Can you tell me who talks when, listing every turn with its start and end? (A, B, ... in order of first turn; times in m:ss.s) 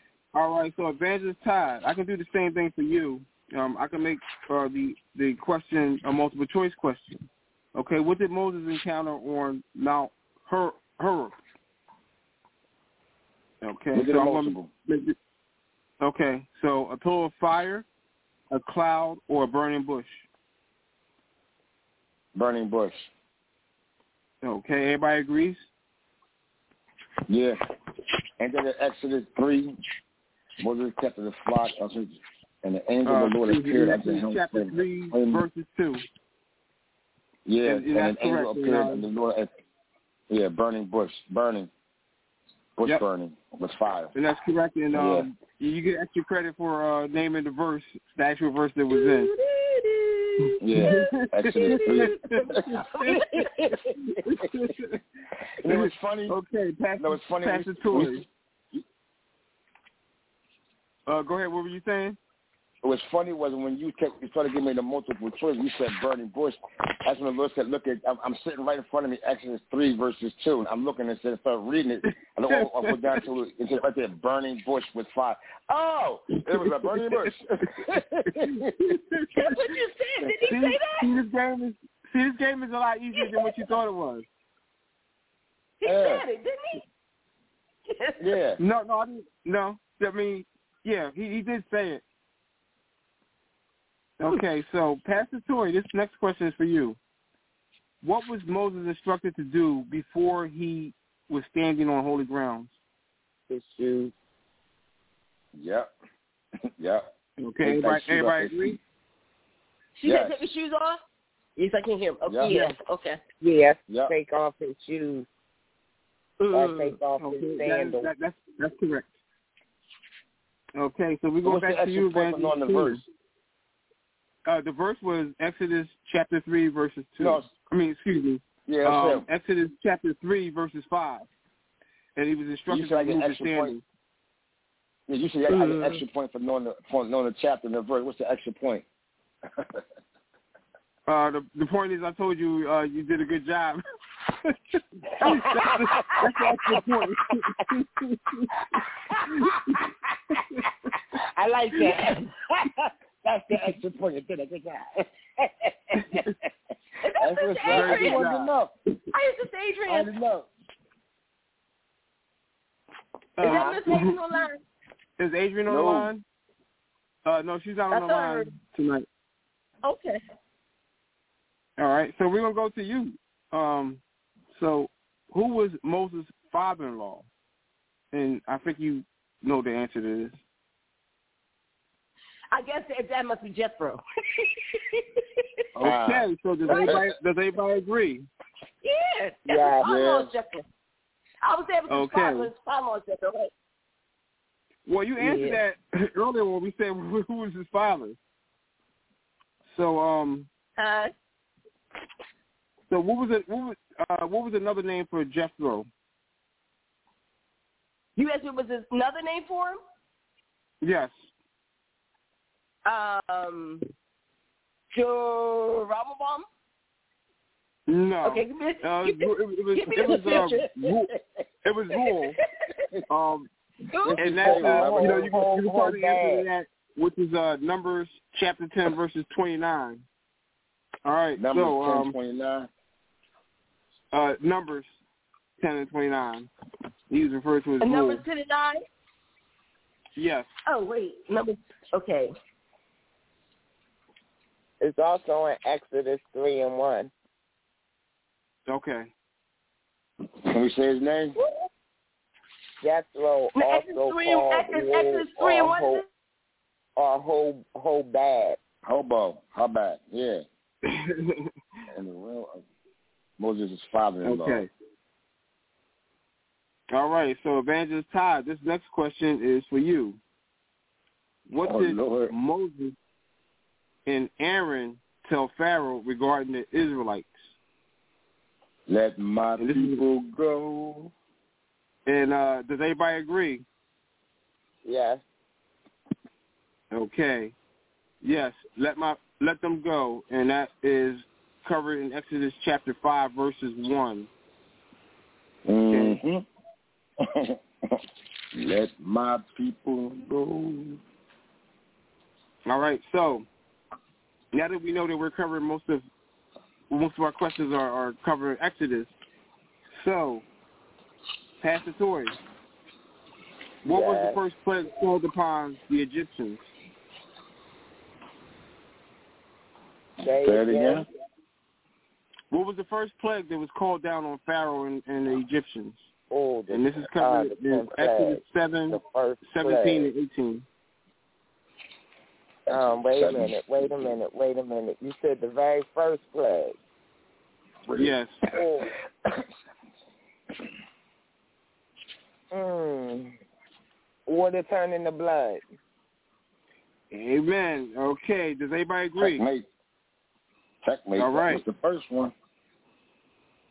0:00.3-0:11.4 A
0:13.6-0:15.2 A
0:13.9-0:14.7 B
0:16.0-0:17.9 A
0:18.5-0:20.3 A
0:22.4-0:23.1 B
0:24.4-0:25.7 A
0:27.3-0:27.6 B
0:28.4-0:29.8 B
0:30.6-0:35.4 B
0:33.0-0:36.0 A
0:37.5-0:39.5 B
0:37.6-0:39.0 A
0:40.3-0:41.7 B
0:42.8-0:44.1 B
0:44.2-0:49.3 A
0:44.9-0:45.3 B
0:48.9-0:53.8 C
0:50.6-0:52.7 B
0:50.8-0:53.2 A
0:54.0-0:55.0 A
0:55.6-0:56.4 B
0:55.7-0:58.2 A
0:57.0-0:58.2 B
1:01.1-1:02.2 A
1:02.8-1:18.7 B
1:12.5-1:13.2 A
1:16.5-1:17.3 A
1:18.3-1:19.5 A
1:19.4-1:21.1 C
1:20.5-1:24.3 A
1:23.2-1:23.6 C
1:25.8-1:26.8 C
1:25.8-1:26.2 B
1:27.9-1:28.3 C
1:28.2-1:28.6 B
1:28.6-1:32.0 A
1:34.2-1:37.0 A
1:38.0-1:42.8 A
1:43.5-1:44.1 D
1:45.6-1:45.9 B
1:46.8-1:47.0 B
1:47.4-1:48.8 A
1:47.6-1:48.8 B
1:50.0-1:51.0 C
1:50.0-1:50.4 B
1:51.6-1:53.2 C
1:52.3-1:52.5 B
1:53.4-1:55.3 D
1:53.9-1:54.1 B
1:56.4-1:56.9 C
1:56.5-1:58.1 D
1:57.2-1:59.2 A
2:00.8-2:03.0 A
2:01.4-2:03.0 B
2:04.5-2:11.3 A
2:07.2-2:07.5 B
2:08.7-2:09.3 B
2:12.2-2:13.8 A
2:12.7-2:13.8 B
2:15.1-2:18.9 B
2:21.1-2:23.8 A
2:24.4-2:28.8 A
2:29.3-2:29.8 A
2:30.4-2:30.7 A
2:31.4-2:32.3 D
2:33.2-2:36.3 B
2:36.0-2:36.3 A
2:37.0-2:38.2 C
2:37.2-2:38.7 B
2:37.7-2:38.5 A
2:39.1-2:40.1 C
2:39.9-2:40.5 B
2:43.4-2:44.2 A
2:43.4-2:44.6 C
2:45.2-2:46.2 A
2:45.7-2:46.1 B
2:47.2-2:49.1 A
2:47.9-2:48.6 C
2:49.8-2:50.2 C
2:51.8-2:54.0 A
2:54.5-2:57.3 A
2:58.1-3:00.4 A
3:02.5-3:05.4 C
3:05.8-3:08.3 A
3:05.8-3:07.1 B
3:08.8-3:10.6 C
3:09.5-3:09.8 D
3:09.8-3:10.3 B
3:11.4-3:13.5 C
3:11.9-3:12.5 A
3:14.9-3:18.2 A
3:15.2-3:15.6 C
3:19.7-3:20.5 A
3:20.8-3:21.1 C
3:22.9-3:25.9 A
3:28.2-3:29.8 C
3:30.8-3:31.2 A
3:32.9-3:33.8 C
3:34.9-3:36.5 C
3:37.9-3:41.1 A
3:38.2-3:40.7 C
3:41.6-3:42.4 A
3:43.1-3:43.5 A
3:43.9-3:44.2 C
3:44.0-3:45.3 B
3:44.2-3:50.0 A
3:44.2-3:46.5 D
3:51.0-3:52.2 A
3:51.4-3:52.7 B
3:54.1-3:55.0 A
3:55.6-3:56.5 A
3:57.1-3:58.2 A
3:57.8-3:58.8 C
4:00.2-4:00.5 A
4:00.7-4:02.3 C
4:04.8-4:07.1 D
4:08.7-4:09.1 A
4:10.4-4:11.4 B
4:11.4-4:11.7 C
4:12.8-4:16.0 D
4:13.6-4:16.0 C
4:17.0-4:18.6 D
4:18.8-4:20.4 B
4:20.8-4:21.5 A
4:21.9-4:22.6 B
4:23.4-4:24.6 B
4:24.2-4:24.7 A
4:26.9-4:30.2 A
4:31.5-4:33.0 A
4:31.6-4:32.3 B
4:34.1-4:37.5 A
4:38.9-4:41.1 B
4:39.6-4:40.0 A
4:42.1-4:43.6 A
4:44.8-4:45.2 D
4:46.9-4:47.6 A
4:48.2-4:54.3 A
4:55.7-4:56.4 B
4:55.9-4:56.2 A
4:57.2-4:58.0 B
4:58.5-5:01.0 B
5:02.7-5:03.5 A
5:04.5-5:06.0 A
5:06.9-5:09.1 A
5:09.9-5:10.4 A
5:11.6-5:12.4 A
5:13.8-5:16.6 A
5:13.9-5:14.4 D
5:20.2-5:21.0 D
5:20.4-5:21.1 B
5:22.5-5:26.1 A
5:26.3-5:30.1 D
5:26.7-5:30.7 A
5:32.7-5:34.2 B
5:32.7-5:36.8 D
5:37.9-5:38.6 B
5:38.0-5:38.4 A
5:38.5-5:38.9 D
5:42.5-5:43.4 D
5:44.3-5:45.6 D
5:47.1-5:49.4 A
5:49.2-5:49.7 B
5:50.8-5:52.3 B
5:51.2-5:51.6 A